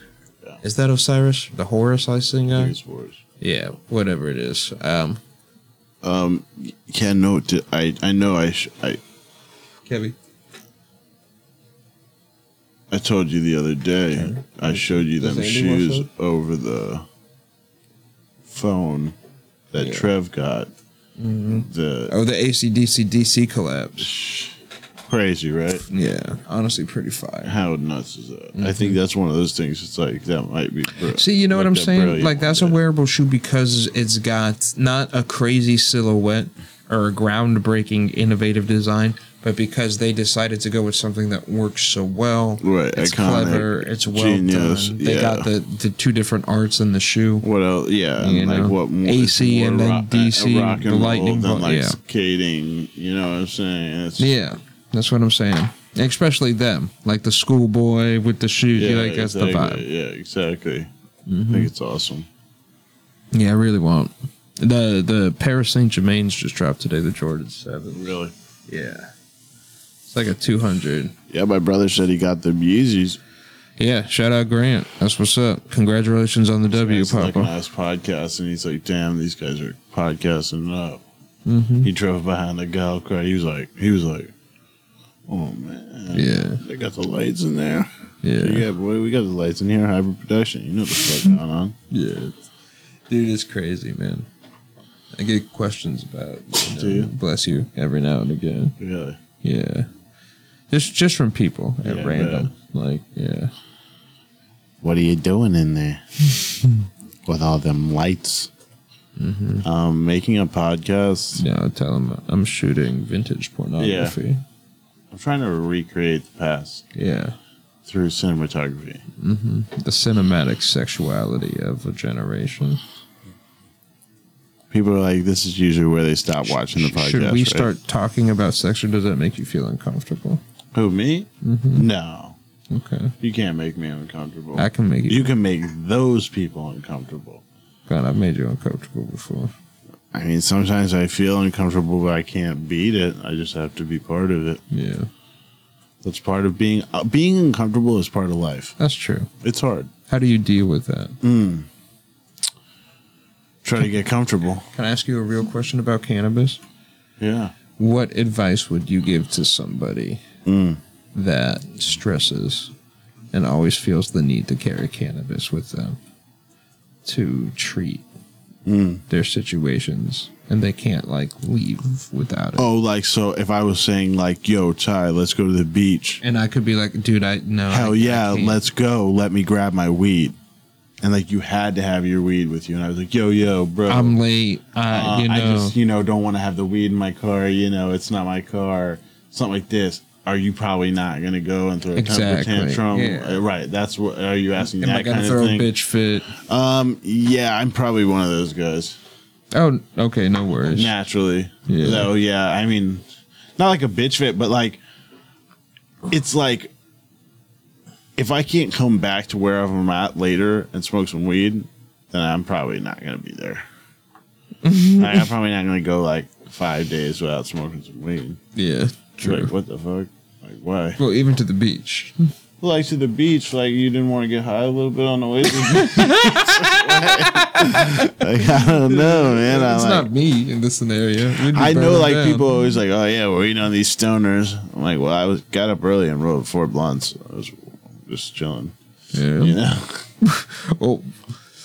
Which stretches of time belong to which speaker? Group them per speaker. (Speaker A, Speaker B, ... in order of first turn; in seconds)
Speaker A: 0.6-2.7, 3.4-5.2, 9.8-10.2, 14.2-16.1, 19.8-20.1, 21.2-24.1, 25.9-27.5, 28.5-29.0, 31.1-47.5, 48.2-52.0, 54.2-59.8, 61.3-61.7, 63.3-68.1, 68.7-69.1, 70.1-71.1, 73.8-77.5, 81.5-81.9, 86.1-86.6, 88.2-88.7, 91.9-92.4, 93.1-94.3, 95.1-98.8, 99.4-99.9, 100.7-103.5, 109.2-109.7, 111.3-114.4, 116.9-117.3, 119.2-122.8, 126.7-130.4, 131.4-131.9, 132.7-133.1, 134.6-135.3, 137.9-139.5, 144.7-145.1, 148.8-149.3, 150.1-151.2, 154.7-156.6, 157.8-160.2, 161.1-162.7, 163.3-166.0, 167.0-168.0, 169.1-172.7, 176.2-178.6, 183.9-185.8, 191.9-193.4, 194.6-196.3, 199.5-200.9, 201.7-202.1, 214.6-215.2, 218.5-219.5, 221.0-222.3, 225.5-232.6, 239.1-239.6, 240.2-241.3
Speaker B: 2.5-3.2, 6.0-9.0, 12.9-17.1, 18.4-19.1, 19.7-20.7, 21.5-22.1, 24.0-25.9, 27.4-32.8, 42.6-45.5, 47.4-54.3, 58.8-60.9, 61.5-62.3, 67.9-68.3, 71.3-73.2, 76.7-81.0, 81.8-84.3, 85.3-91.8, 96.6-97.1, 98.8-99.2, 101.8-102.5, 104.8-106.3, 107.2-108.5, 109.6-111.4, 113.8-114.2, 115.1-116.8, 117.8-119.0, 124.7-127.7, 130.7-132.4, 133.2-137.4, 140.1-144.6, 146.0-148.8, 149.4-149.9, 151.2-151.7, 153.6-154.7, 157.2-157.5, 160.4-160.8, 168.6-169.0, 172.6-176.2, 177.7-180.3, 181.0-184.2, 184.9-195.7, 196.3-199.0, 200.7-203.0, 203.6-204.8, 206.1-206.7, 208.2-213.6, 215.0-218.4, 219.2-221.0, 222.6-230.1, 231.3-238.7, 239.3-240.1